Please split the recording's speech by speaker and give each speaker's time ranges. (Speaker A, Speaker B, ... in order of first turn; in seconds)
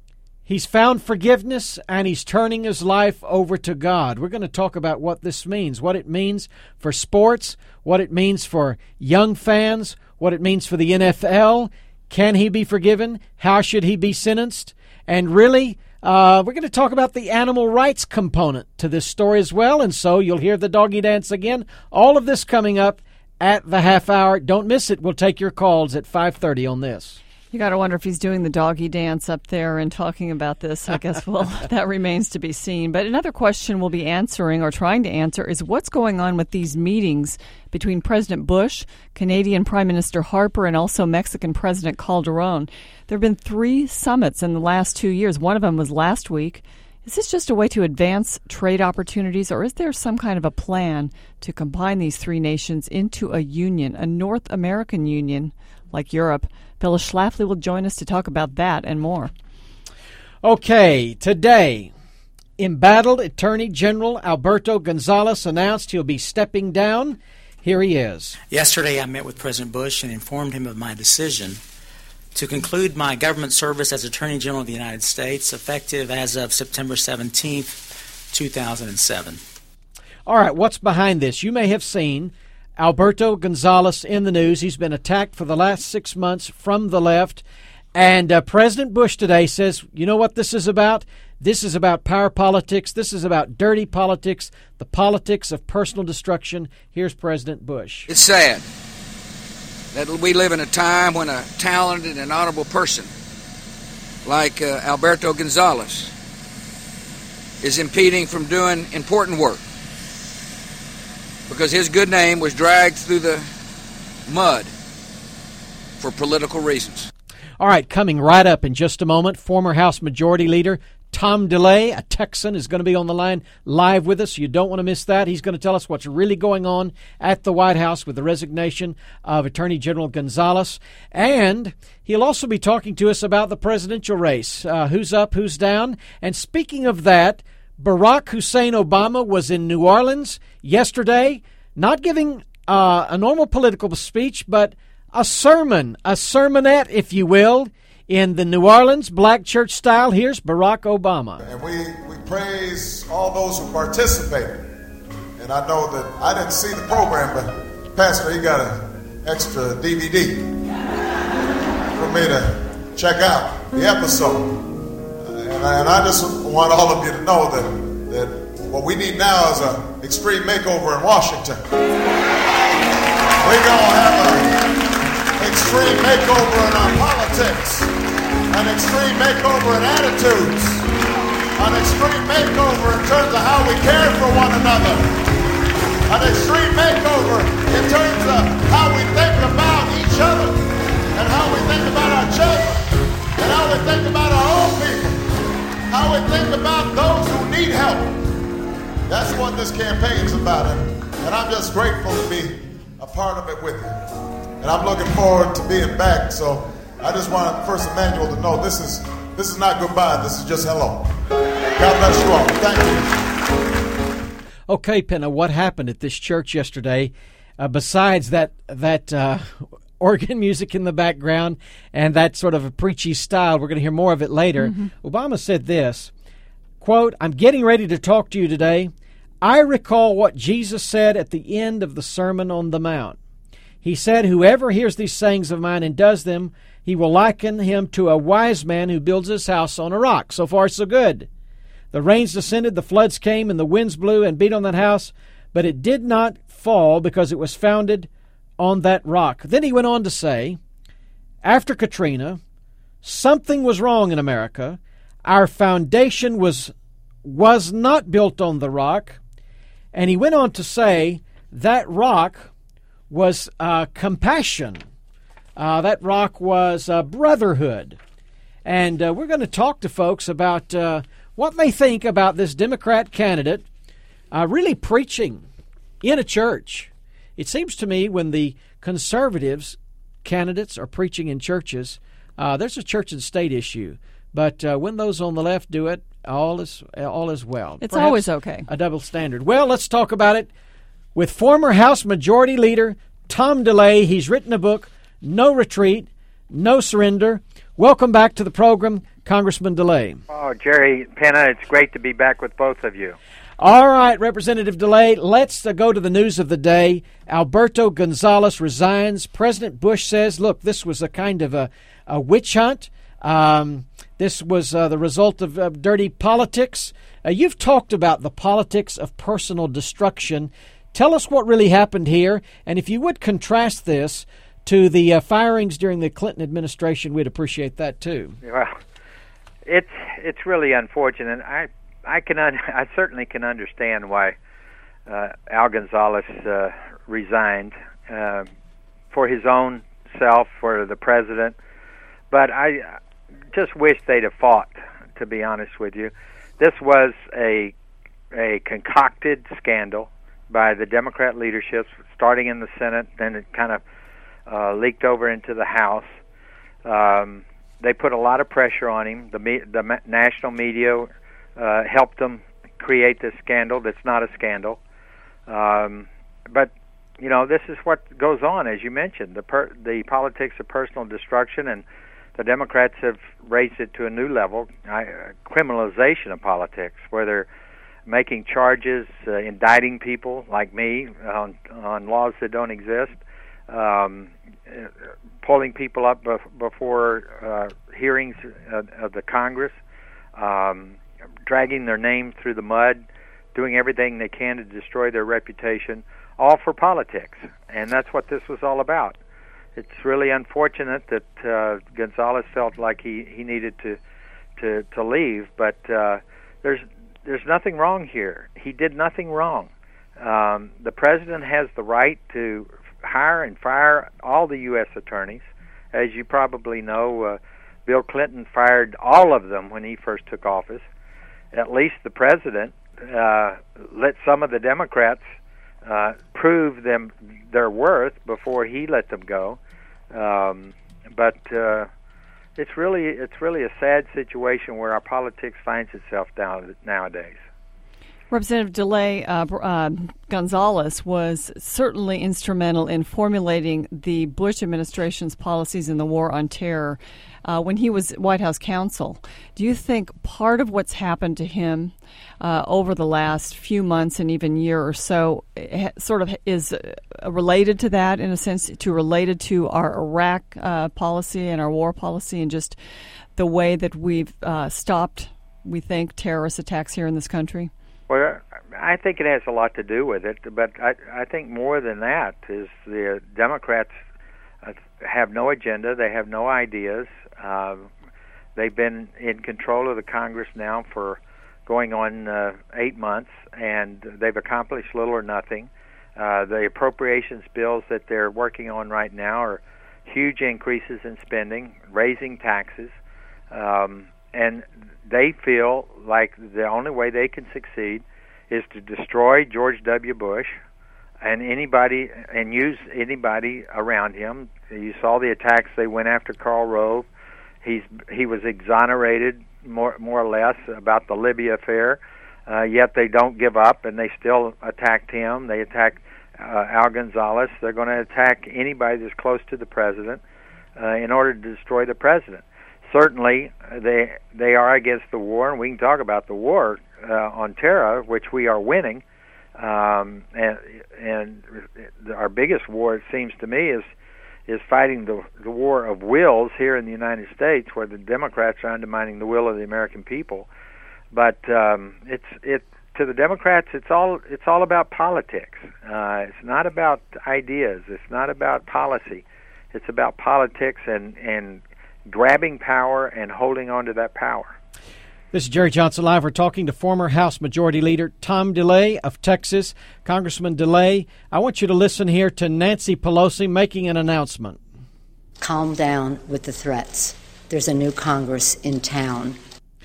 Speaker A: 0.5-27.2, 60.4-61.9, 62.6-68.4, 80.3-98.1, 117.6-151.4, 214.7-226.1, 226.8-233.2, 233.8-241.3, 241.9-248.1, 248.6-250.6, 251.4-252.4, 253.0-256.7, 257.2-259.2, 259.9-262.5, 263.1-264.8, 265.6-268.0, 268.6-273.7, 274.3-275.4, 276.0-290.5, 291.1-300.2, 303.6-328.4, 555.3-564.6
Speaker B: 27.5-59.3, 224.6-224.9, 287.8-288.7, 438.3-462.8, 463.4-467.7
Speaker C: 68.5-71.6, 72.3-79.4
Speaker D: 98.1-98.6, 99.9-103.1, 104.2-106.1, 107.6-109.6, 111.5-113.5, 114.3-114.7, 116.0-117.1
Speaker E: 151.4-154.7, 155.4-160.5, 161.9-164.6, 165.2-171.6, 173.4-174.7, 175.4-177.9, 178.5-180.9, 181.6-185.1, 186.1-190.6, 191.1-195.3, 195.9-198.2, 199.1-211.1, 211.8-213.1
Speaker F: 300.3-303.2, 328.4-328.8, 329.7-334.4, 335.1-338.5, 339.1-341.6, 342.3-343.0, 343.5-347.7, 348.3-353.8, 354.5-356.2, 356.9-364.8, 365.5-371.9, 372.4-377.5, 378.1-389.8, 390.4-399.2, 399.8-404.0, 404.6-420.9, 421.5-425.3, 425.8-429.6, 430.1-431.9, 432.6-437.4, 468.1-474.0, 474.6-477.9, 478.6-493.0, 493.5-500.6, 501.2-507.1, 507.6-520.2, 520.8-529.0, 529.6-533.9, 534.5-540.5, 541.1-554.6
Speaker G: 565.4-569.4